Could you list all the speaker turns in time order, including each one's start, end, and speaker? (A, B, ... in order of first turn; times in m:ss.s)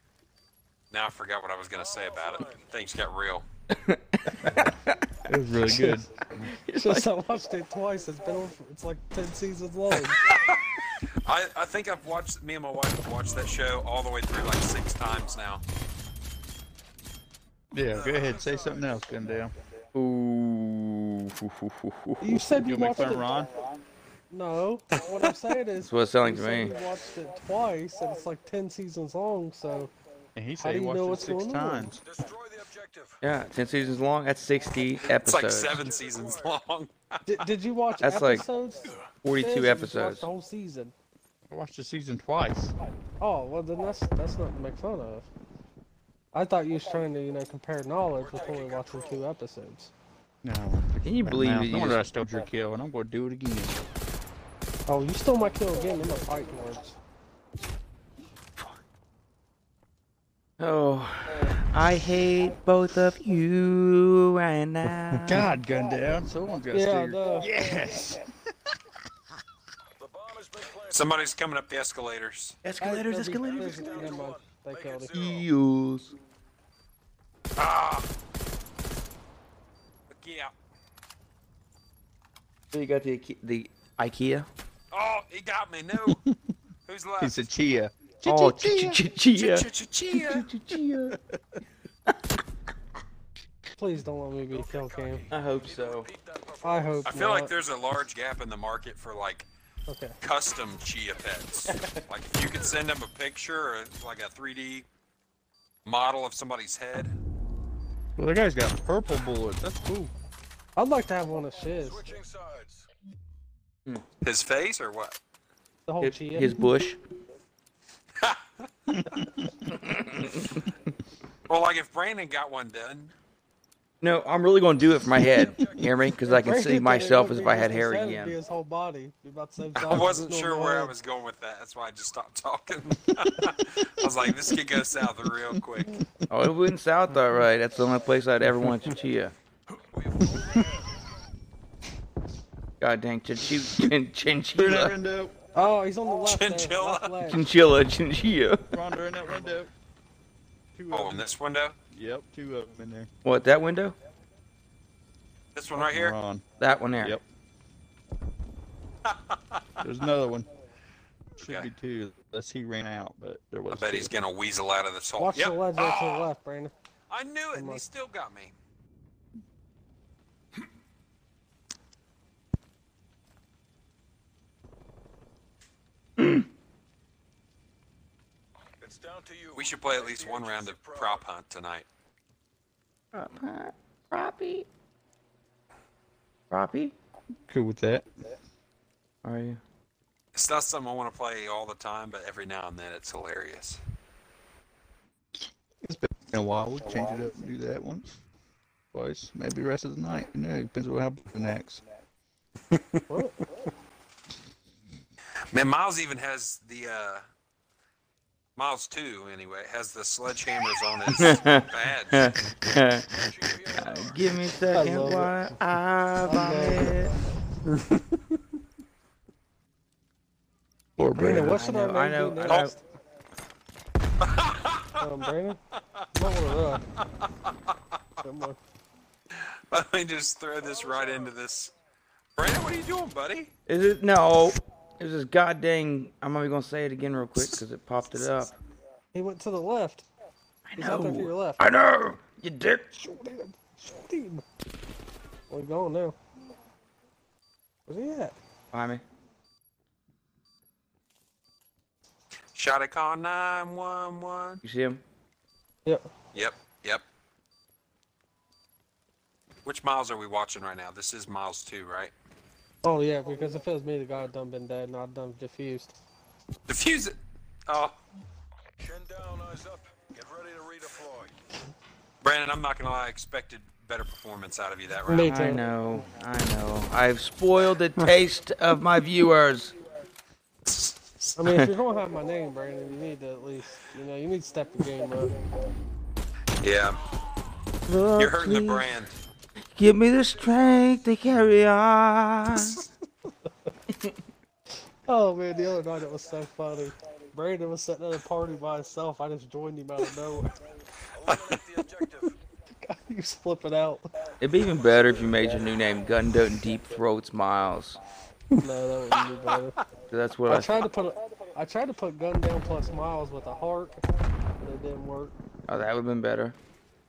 0:00.9-0:03.4 A
0:01.8-0:02.7 B
0:03.7-0:07.1 C
0:05.2-0:06.5 D
0:06.7-0:10.2 E
0:10.1-0:10.6 A
0:11.2-0:15.6 A
0:17.7-0:19.5 D
0:17.9-0:18.9 B
0:19.9-0:22.4 C
0:22.2-0:23.3 E
0:22.6-0:23.6 D
0:24.3-0:29.9 E
0:25.8-0:26.7 C
0:30.3-0:32.0 D
0:30.6-0:31.9 E
0:32.0-0:33.2 B
0:33.2-0:35.8 C
0:35.2-0:37.2 A
0:35.4-0:36.6 B
0:37.3-0:40.9 E
0:38.0-0:38.4 C
0:39.2-0:40.3 C
0:41.5-0:42.7 D
0:43.2-0:45.3 E
0:46.3-0:49.9 E
0:48.2-0:49.2 B
0:50.4-0:53.9 D
0:51.0-0:52.0 C
0:54.9-0:57.0 E
1:00.6-1:05.5 C
1:05.1-1:08.2 D
1:06.7-1:07.5 E
1:10.0-1:11.1 B
1:10.9-1:12.6 A
1:12.6-1:14.1 C
1:12.8-1:15.1 E
1:13.4-1:15.5 B
1:15.1-1:16.1 C
1:17.6-1:18.1 A
1:20.1-1:20.5 A
1:22.7-1:24.5 C
1:24.9-1:26.2 A
1:26.0-1:26.5 D
1:26.9-1:27.4 A
1:27.2-1:29.0 D
1:28.2-1:31.2 C
1:29.3-1:30.5 A
1:33.8-1:35.2 E
1:34.5-1:37.2 B
1:35.3-1:36.1 C
1:36.6-1:37.5 E
1:37.1-1:39.5 A
1:39.9-1:40.2 E
1:40.2-1:44.8 A
1:45.8-1:47.1 A
1:48.2-1:50.1 D
1:50.8-1:52.1 E
1:51.8-1:52.9 B
1:54.2-1:55.2 A
1:55.8-1:56.6 E
1:56.0-1:57.0 C
1:58.9-1:59.7 D
1:59.8-2:00.5 C
2:01.5-2:03.1 A
2:04.0-2:08.4 C
2:05.2-2:06.0 B
2:06.2-2:10.9 E
2:09.8-2:15.9 A
2:15.8-2:16.1 D
2:16.3-2:19.3 C
2:18.5-2:18.7 D
2:19.9-2:20.9 B
2:22.8-2:25.0 C
2:24.5-2:25.4 D
2:25.5-2:27.4 E
2:26.2-2:27.1 A
2:27.3-2:28.7 C
2:28.7-2:29.7 D
2:30.7-2:31.3 D
2:30.9-2:31.8 A
2:31.9-2:33.1 D
2:33.2-2:34.0 C
2:35.5-2:36.2 A
2:35.8-2:36.4 D
2:36.6-2:37.2 C
2:39.0-2:39.8 A
2:39.8-2:40.5 D
2:41.4-2:41.7 A
2:41.4-2:44.1 D
2:43.7-2:46.2 A
2:45.2-2:46.7 E
2:47.1-2:48.5 A
2:47.5-2:47.8 E
2:56.2-2:56.4 C
2:58.8-3:01.2 B
2:59.6-3:01.8 A
3:03.1-3:04.7 C
3:06.5-3:06.9 C
3:07.5-3:08.0 D
3:09.2-3:09.6 C
3:10.3-3:13.8 A
3:15.8-3:18.1 D
3:18.9-3:21.8 D
3:22.7-3:23.0 A
3:23.1-3:23.4 E
3:25.5-3:27.2 A
3:28.6-3:32.3 A
3:31.1-3:33.2 C
3:33.1-3:34.2 B
3:33.7-3:37.1 C
3:34.7-3:35.4 E
3:36.2-3:37.0 E
3:41.0-3:41.6 D
3:41.2-3:42.8 E
3:41.2-3:42.7 C
3:42.5-3:42.7 A
3:44.2-3:45.0 A
3:45.0-3:45.6 E
3:46.1-3:46.8 E
3:48.2-3:48.6 E
3:49.4-3:51.7 A
3:52.4-3:53.5 A
3:53.7-3:58.6 C
3:59.1-4:00.0 E
4:00.6-4:02.9 C
4:00.8-4:01.6 E
4:02.9-4:04.4 E
4:05.5-4:06.2 E
4:07.9-4:08.3 E
4:08.7-4:09.0 C
4:12.5-4:14.6 A
4:14.6-4:15.0 C
4:16.3-4:17.0 A
4:19.6-4:22.1 A
4:22.8-4:26.0 E
4:26.7-4:28.0 A
4:28.8-4:31.3 B
4:32.2-4:35.4 A
4:35.1-4:35.6 E
4:35.2-4:39.7 C
4:40.7-4:41.3 A
4:41.4-4:45.3 E
4:46.6-4:47.0 A
4:47.9-4:48.8 C
4:48.2-4:49.1 A
4:49.7-4:52.8 C
4:50.4-4:50.8 B
4:55.0-5:00.5 E
5:01.1-5:02.3 B
5:01.3-5:01.5 A
5:02.8-5:04.1 E
5:04.4-5:08.0 C
5:08.6-5:09.8 E
5:10.1-5:10.8 C
5:10.5-5:14.0 E
5:14.6-5:15.3 E
5:15.7-5:16.6 C